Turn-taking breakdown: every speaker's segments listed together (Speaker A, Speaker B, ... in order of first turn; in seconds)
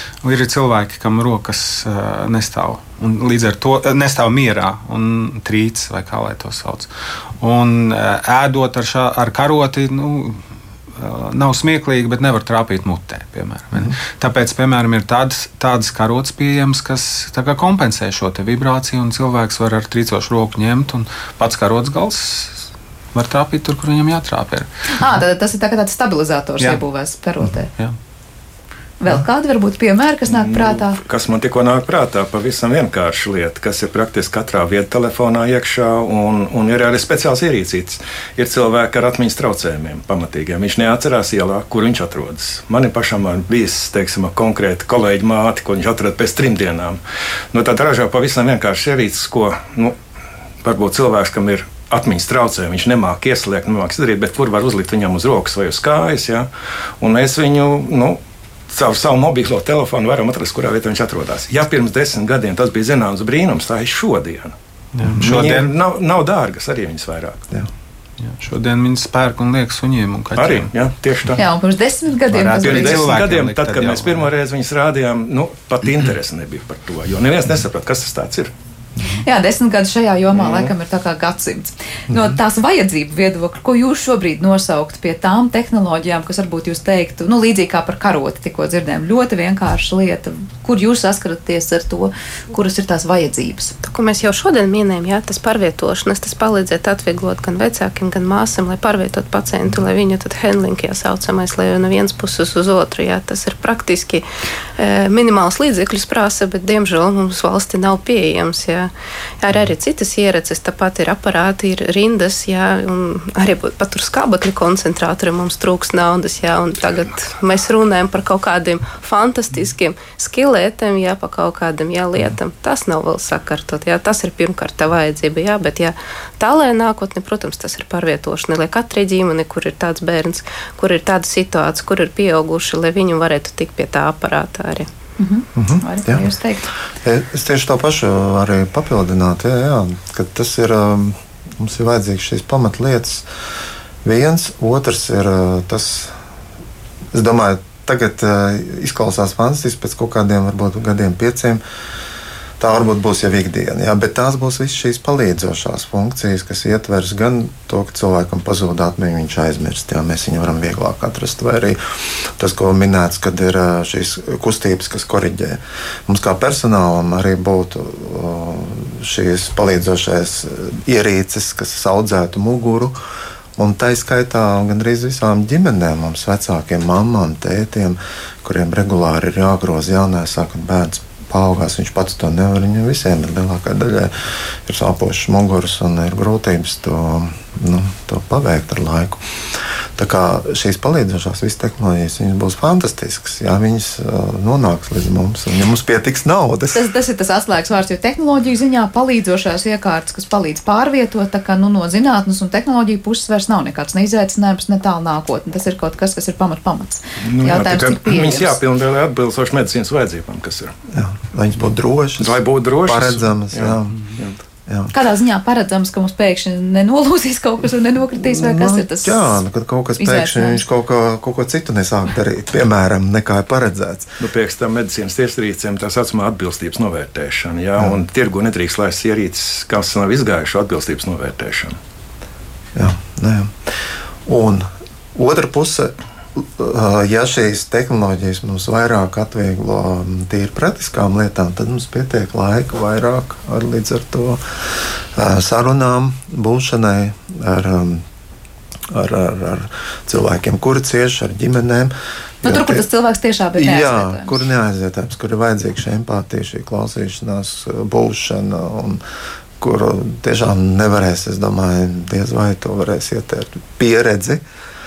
Speaker A: 0.2-6.9, 7.4-10.4, 10.9-24.7, 65.0-65.7, 68.2-70.7, 72.3-74.3
Speaker B: 24.9-27.7, 29.0-31.0, 71.3-73.1, 79.2-93.7, 135.2-136.7, 196.7-208.6, 214.9-219.3, 220.0-220.6, 252.4-254.4
Speaker C: 30.3-47.0, 47.5-50.0, 50.6-56.5, 57.0-64.5, 65.1-67.4, 70.3-71.4, 72.6-78.5, 80.3-80.7, 207.2-210.7, 212.2-214.4, 224.2-231.8
Speaker D: 93.8-104.2, 104.8-134.9
Speaker E: 135.5-136.3, 137.0-143.2, 144.0-146.1, 147.1-151.6, 152.6-173.0, 173.6-196.9, 210.9-214.0, 214.7-214.9, 218.2-224.1, 232.7-233.7, 234.2-248.0, 248.9-252.8, 253.6-259.0, 259.6-264.4